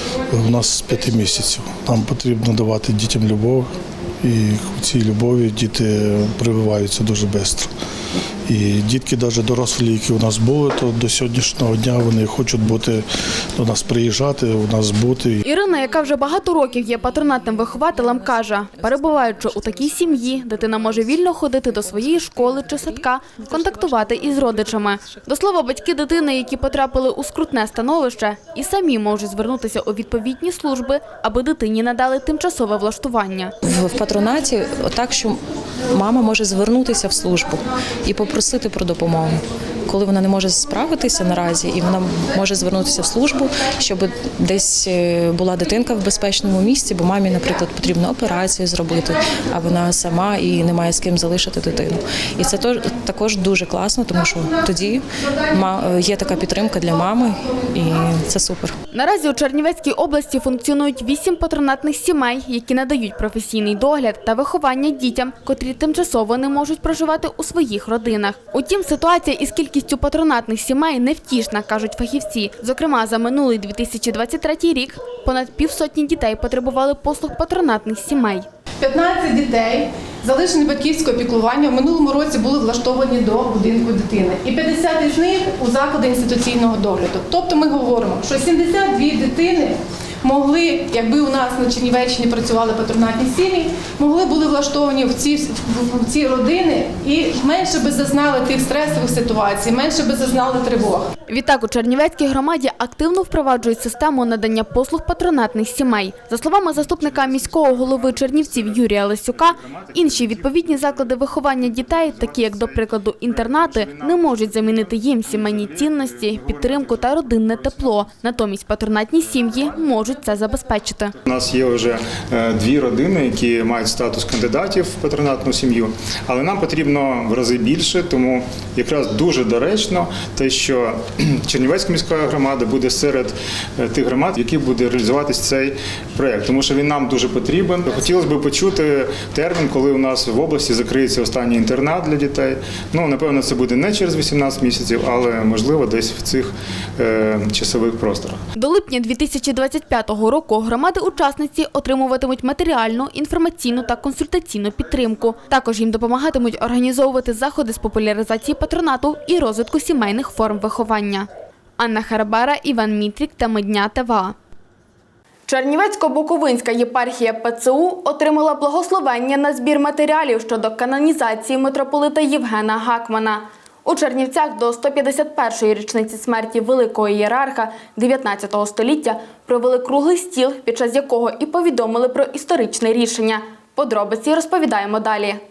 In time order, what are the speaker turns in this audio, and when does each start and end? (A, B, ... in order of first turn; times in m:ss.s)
0:00.3-0:07.7 A
0:08.5-0:13.0 A
0:13.6-0:15.4 A
0:15.4-0:33.5 B
0:33.6-0:35.4 C
0:35.9-0:58.7 C
0:58.9-1:18.5 B
1:18.8-1:41.1 D
1:41.3-2:01.1 B
1:46.7-1:57.9 E
2:01.2-2:28.4 E
2:28.6-2:44.4 B
2:45.5-3:05.4 B